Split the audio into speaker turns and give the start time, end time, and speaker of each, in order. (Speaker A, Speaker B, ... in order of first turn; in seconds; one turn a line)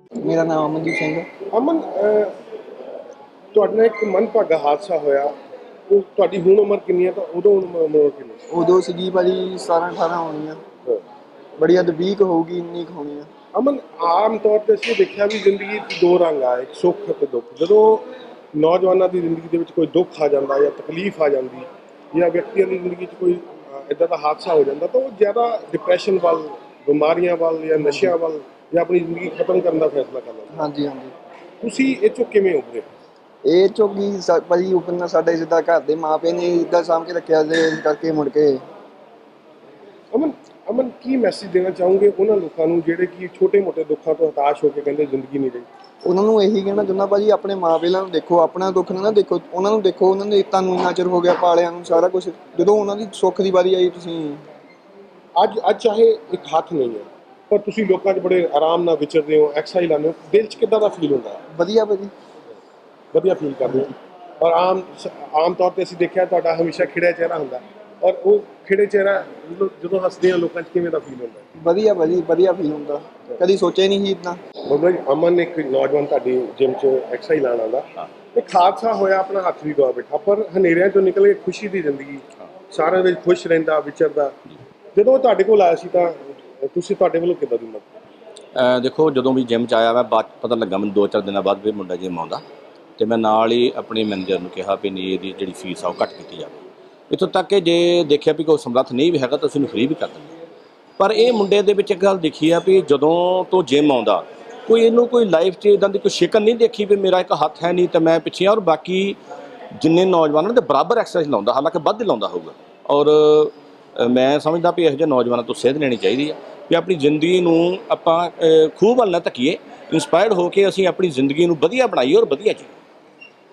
Speaker A: 0.2-1.3
Speaker B: 1.5-2.3
Speaker B: 3.5-5.3
Speaker B: 5.9-8.4
Speaker A: 8.5-10.6
Speaker A: 11.6-13.3
Speaker B: 13.5-30.6
Speaker A: 27.8-28.1
Speaker A: 30.5-31.1
Speaker B: 31.6-32.9
Speaker A: 33.5-38.6
Speaker B: 40.1-45.7
Speaker A: 46.0-54.4
Speaker B: 55.4-61.4
Speaker A: 61.5-62.1
Speaker B: 63.1-71.5
Speaker A: 71.6-74.4
Speaker B: 74.7-84.3
Speaker B: 85.0-87.9
Speaker C: 88.5-92.4
Speaker C: 93.0-100.3
Speaker C: 101.0-109.2
Speaker C: 109.8-122.8